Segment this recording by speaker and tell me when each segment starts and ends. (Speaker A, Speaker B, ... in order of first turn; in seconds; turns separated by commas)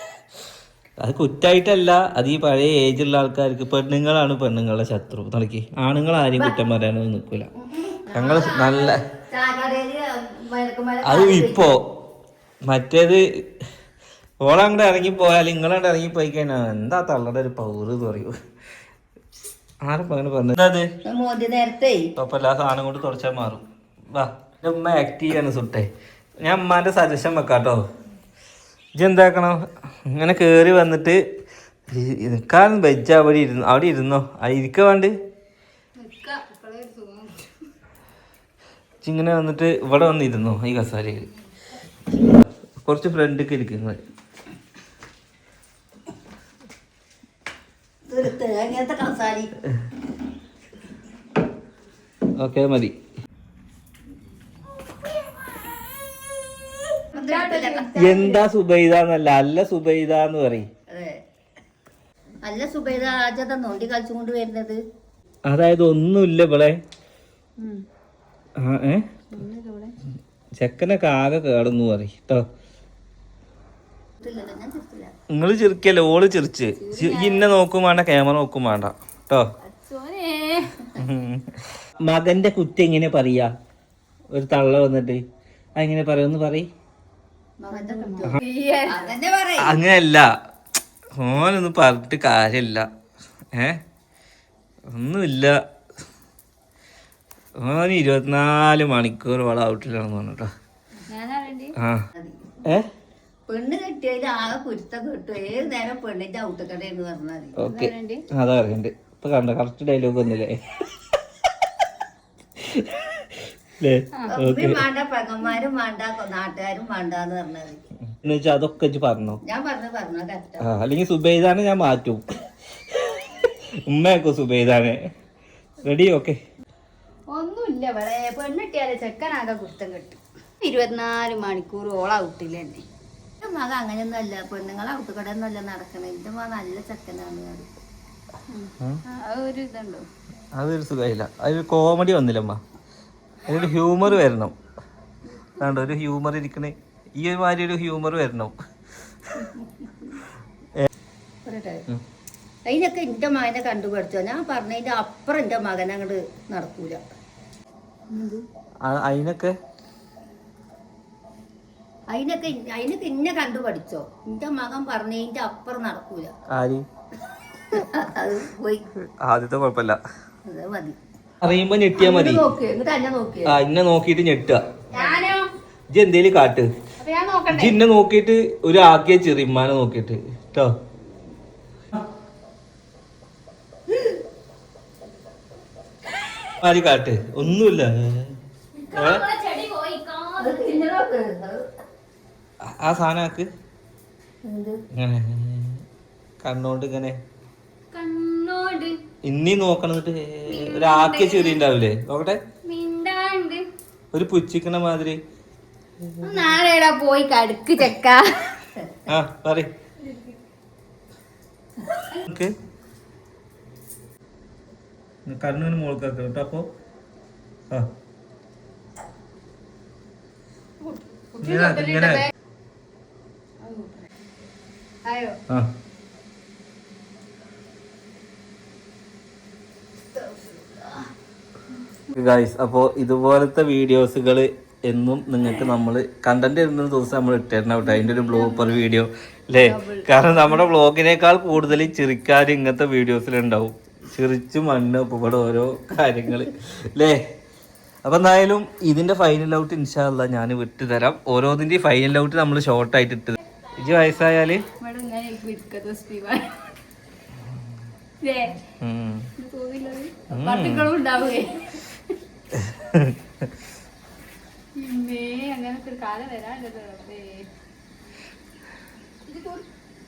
Speaker A: 1.0-7.5, Speaker B: 7.6-11.6, Speaker A: 8.1-9.0, Speaker A: 11.0-11.8, Speaker A: 12.6-13.2, Speaker A: 14.4-18.3, Speaker A: 19.8-20.9, Speaker B: 21.0-22.1, Speaker A: 22.1-25.9, Speaker A: 26.4-27.8, Speaker A: 28.9-31.2, Speaker A: 31.9-35.1, Speaker C: 36.0-37.5, Speaker A: 39.0-41.3, Speaker A: 42.8-44.0, Speaker B: 48.1-49.5, Speaker A: 52.4-52.9, Speaker C: 57.1-57.9, Speaker B: 57.1-58.4, Speaker A: 58.0-60.7, Speaker B: 60.9-61.2, Speaker B: 62.4-64.8, Speaker A: 65.5-66.8, Speaker A: 68.6-69.0, Speaker C: 69.3-70.0, Speaker A: 70.6-72.4, Speaker B: 74.2-75.1, Speaker A: 75.3-79.5, Speaker C: 76.8-77.5, Speaker C: 79.6-80.9, Speaker A: 80.9-83.5, Speaker A: 84.3-85.2, Speaker A: 85.8-86.7, Speaker B: 87.6-89.8, Speaker C: 87.7-89.0, Speaker A: 89.6-90.3, Speaker A: 91.2-92.9, Speaker A: 93.5-93.8, Speaker A: 94.9-95.5, Speaker A: 97.6-100.5, Speaker C: 101.1-101.7, Speaker A: 101.8-102.0, Speaker B: 102.2-102.6, Speaker B: 103.5-107.6, Speaker A: 107.6-110.6, Speaker C: 107.6-108.2, Speaker A: 112.6-114.8, Speaker B: 114.2-117.8, Speaker A: 118.1-119.4, Speaker B: 119.4-120.6, Speaker A: 120.6-122.2, Speaker A: 122.9-125.0, Speaker A: 125.8-126.4, Speaker C: 127.3-132.8, Speaker B: 133.4-137.7, Speaker C: 138.5-140.1, Speaker A: 140.5-142.6, Speaker A: 143.4-144.5, Speaker A: 145.6-148.5, Speaker C: 149.4-149.9, Speaker B: 151.4-151.8, Speaker B: 152.7-157.0, Speaker C: 158.1-158.4, Speaker A: 158.8-159.6, Speaker B: 162.1-166.3, Speaker A: 166.5-166.8, Speaker B: 167.7-168.9, Speaker A: 169.2-170.0, Speaker B: 170.4-171.0, Speaker A: 171.4-172.5, Speaker B: 171.9-173.6, Speaker A: 173.4-174.6, Speaker B: 174.9-175.2, Speaker C: 174.9-175.5, Speaker A: 175.9-176.7, Speaker C: 177.0-177.8, Speaker A: 177.5-180.7, Speaker A: 186.6-188.3, Speaker C: 188.8-190.8, Speaker A: 188.9-189.2, Speaker B: 190.4-191.7, Speaker A: 192.7-193.5, Speaker B: 194.4-194.8, Speaker A: 194.9-195.8, Speaker A: 196.4-197.2, Speaker C: 197.9-199.0, Speaker A: 199.2-202.4, Speaker C: 200.5-201.6, Speaker C: 202.6-203.7, Speaker A: 204.1-205.2, Speaker C: 206.2-208.7, Speaker B: 208.8-209.1, Speaker A: 209.1-209.7, Speaker A: 212.2-212.5, Speaker A: 215.2-216.7, Speaker C: 220.8-222.2, Speaker A: 221.3-222.3, Speaker C: 223.6-224.1, Speaker C: 225.0-225.4, Speaker C: 230.1-231.0, Speaker A: 232.1-247.2, Speaker C: 237.8-238.8, Speaker C: 239.5-240.7, Speaker A: 248.0-254.6, Speaker C: 254.8-256.7, Speaker C: 258.2-258.6, Speaker A: 258.8-259.3, Speaker C: 259.4-262.0, Speaker A: 260.3-260.9, Speaker A: 262.5-263.2, Speaker C: 264.8-267.5, Speaker C: 269.2-269.6